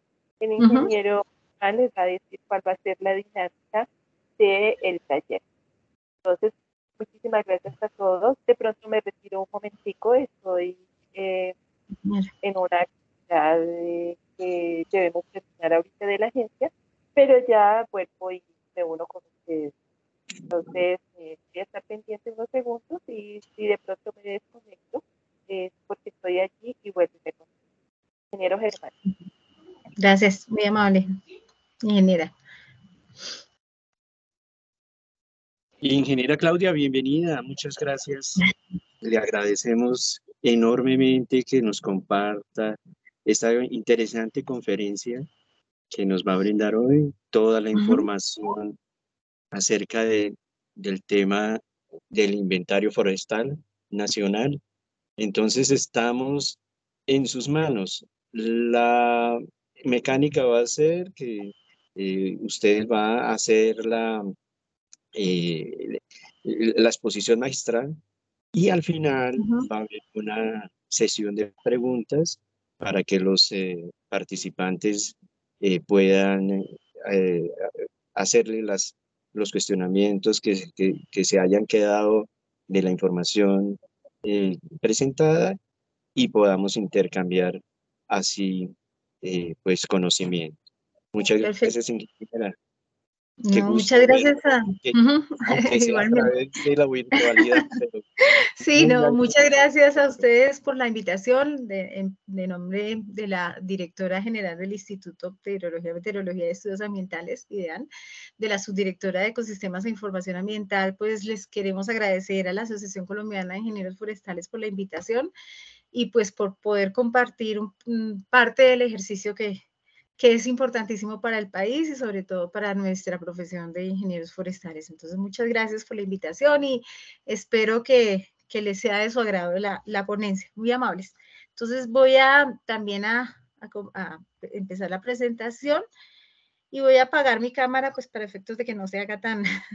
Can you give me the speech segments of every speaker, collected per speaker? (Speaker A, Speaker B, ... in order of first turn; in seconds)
Speaker A: 0.4-3.9, 4.4-5.4, 6.2-11.5, 12.4-19.7, 20.5-27.4, 28.3-28.9
Speaker B: 0.6-0.9, 12.0-12.3, 30.0-31.1, 31.8-32.3, 69.4-69.7, 91.4-91.7, 93.4-96.3, 98.6-107.9, 108.4-115.3, 115.9-119.6, 120.2-135.8, 136.7-139.5
Speaker C: 35.8-38.4, 39.0-45.3, 45.9-48.8, 49.5-51.6, 52.1-54.6, 55.2-64.3, 65.1-68.0, 68.5-85.6, 86.1-90.6, 91.1-92.5, 93.5-98.0, 98.7-99.3